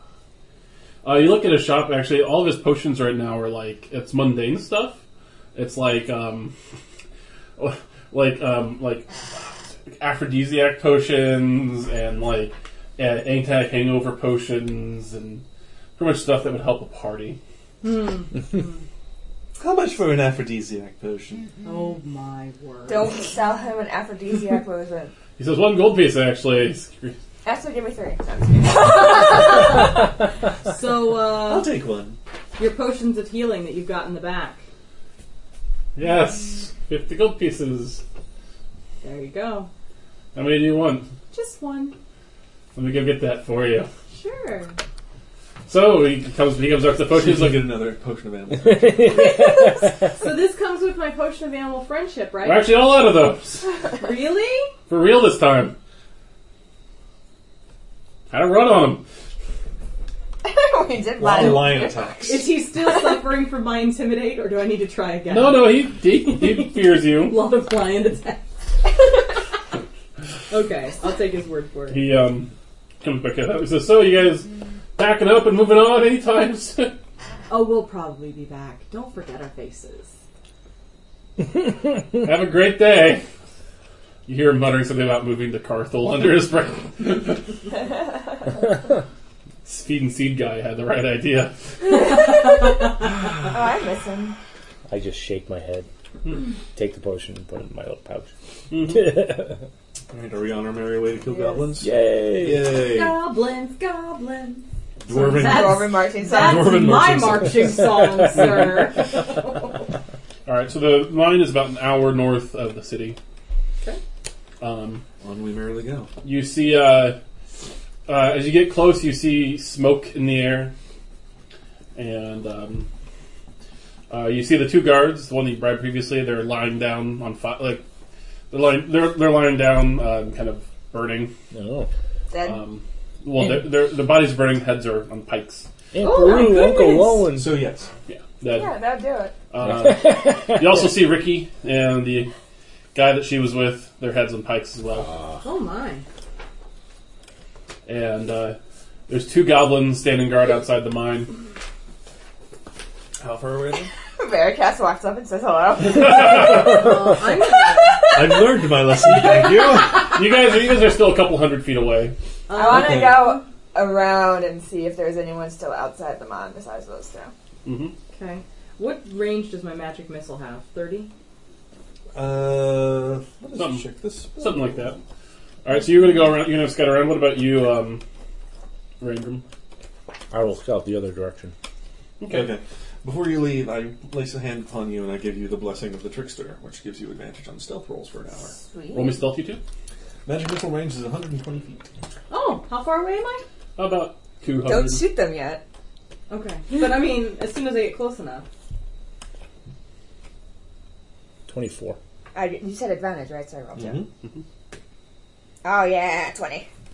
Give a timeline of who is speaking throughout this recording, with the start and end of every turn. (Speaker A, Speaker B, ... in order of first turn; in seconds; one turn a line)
Speaker A: 1.0-5.0
Speaker A: 5.5-6.5
Speaker A: 7.6-15.4
Speaker A: 16.0-17.4
Speaker B: 17.8-18.8
Speaker C: 19.6-21.5
Speaker B: 21.6-23.1
Speaker D: 22.9-25.1
Speaker A: 25.4-27.2
Speaker D: 27.4-29.9
Speaker B: 29.4-29.7
Speaker B: 30.6-31.7
Speaker C: 31.3-32.2
Speaker B: 32.6-34.6
Speaker A: 36.0-38.0
Speaker B: 39.0-39.7
Speaker A: 40.3-41.1
Speaker B: 41.3-42.0
Speaker A: 42.7-43.9
Speaker B: 44.1-44.8
Speaker A: 45.7-47.7
Speaker C: 47.1-49.0
Speaker E: 48.6-50.1
Speaker B: 49.0-52.7
Speaker A: 52.4-53.7
Speaker B: 53.9-54.7
Speaker A: 54.9-55.8
Speaker A: 58.3-59.0
Speaker D: 60.4-62.2
Speaker C: 61.2-62.5
Speaker B: 62.2-68.5
Speaker A: 65.3-67.4
Speaker B: 70.5-72.1
Speaker A: 71.9-77.0
Speaker B: 77.5-80.1
Speaker A: 82.1-83.2
Speaker A: 84.2-87.5
Speaker A: 89.6-91.5
Speaker D: 91.9-92.8
Speaker D: 93.4-94.4
Speaker E: 94.9-95.9
Speaker E: 96.7-99.6
Speaker A: 98.7-99.1
Speaker C: 100.1-103.2
Speaker D: 101.3-101.7
Speaker E: 101.8-102.6
Speaker B: 102.8-109.9
Speaker C: 105.0-107.8
Speaker D: 105.2-106.8
Speaker A: 110.5-113.2
Speaker A: 114.6-115.0
Speaker C: 115.2-116.1
Speaker A: 116.2-117.2
Speaker A: 118.1-120.7
Speaker A: 121.9-122.9
Speaker A: 124.1-127.8
Speaker A: 128.5-131.3
Speaker E: 131.5-131.9
Speaker D: 132.3-132.6
Speaker A: 132.4-135.7
Speaker E: 135.9-137.6
Speaker B: 136.0-137.2
Speaker C: 137.3-137.9
Speaker A: 138.1-138.8
Speaker D: 138.5-139.3
Speaker A: 139.5-142.3
Speaker E: 139.6-140.8
Speaker A: 142.9-145.1
Speaker E: 145.0-145.4
Speaker B: 145.4-146.0
Speaker A: 147.8-148.6
Speaker A: 149.1-151.3
Speaker C: 153.2-153.9
Speaker D: 154.2-157.1
Speaker A: 155.8-156.8
Speaker B: 156.6-158.1
Speaker D: 157.7-158.5
Speaker C: 158.1-160.2
Speaker A: 159.1-162.1
Speaker B: 162.5-163.4
Speaker D: 162.5-167.3
Speaker C: 162.6-163.3
Speaker A: 167.6-167.9
Speaker B: 168.1-171.1
Speaker C: 172.1-174.9
Speaker A: 173.5-175.0
Speaker A: 175.6-178.0
Speaker A: 179.0-179.4
Speaker E: 180.3-181.5
Speaker A: 182.2-182.5
Speaker C: 182.3-188.6
Speaker D: 188.5-189.2
Speaker A: 188.9-189.6
Speaker C: 190.2-191.9
Speaker B: 192.3-193.4
Speaker A: 193.8-195.1
Speaker D: 194.6-195.6
Speaker B: 196.3-198.4
Speaker E: 201.5-202.0
Speaker D: 202.3-204.0
Speaker C: 203.8-204.1
Speaker D: 205.6-206.7